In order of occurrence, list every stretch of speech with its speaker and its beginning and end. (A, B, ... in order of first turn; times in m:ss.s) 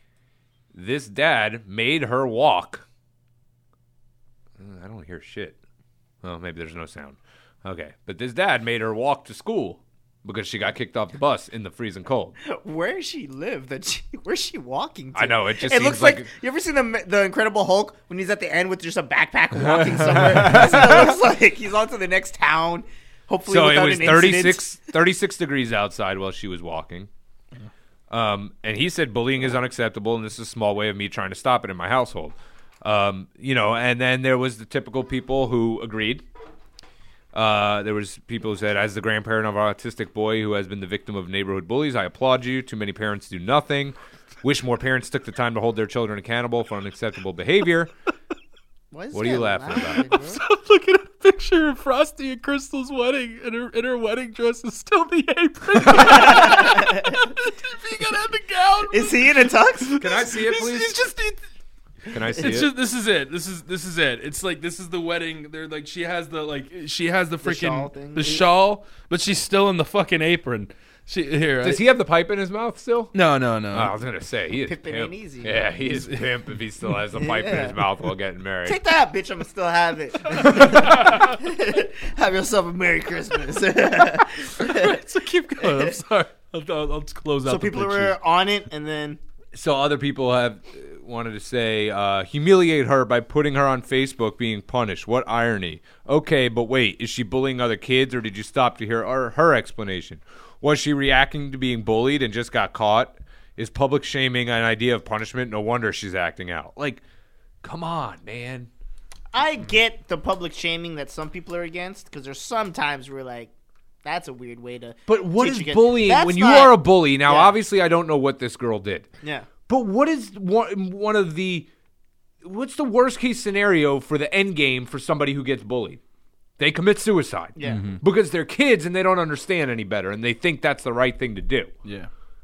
0:00.7-0:02.8 A
0:04.6-0:05.6 A
0:06.2-0:12.4 A
0:12.4-0:24.7 B
0:15.1-0:16.3 A
0:19.6-0:21.2 A
0:23.5-0:27.1 A
0:28.1-0:36.2 A
0:37.3-0:47.9 A
0:48.9-0:50.4 B
0:49.1-0:50.1 A
0:50.1-1:01.4 C
0:55.9-0:57.2 B
0:58.9-1:00.0 B
1:00.0-1:01.0 A
1:02.1-1:02.7 A
1:02.4-1:11.8 C
1:07.4-1:08.5 B
1:11.6-1:13.1 A
1:13.1-1:13.9 C
1:13.7-1:18.8 A
1:14.6-1:15.7 B
1:15.9-1:16.3 C
1:17.2-1:17.7 B
1:18.6-1:25.0 B
1:24.6-1:28.2 C
1:25.6-1:25.9 B
1:27.4-1:29.2 B
1:29.5-1:47.0 A
1:47.6-1:48.7 A
1:49.3-1:53.5 B
1:54.0-1:57.6 B
1:55.1-1:59.1 A
1:59.2-1:59.5 B
1:59.7-2:01.7 A
2:02.4-2:06.0 A
2:06.6-2:11.7 A
2:07.6-2:08.0 B
2:07.6-2:08.0 C
2:11.8-2:12.1 C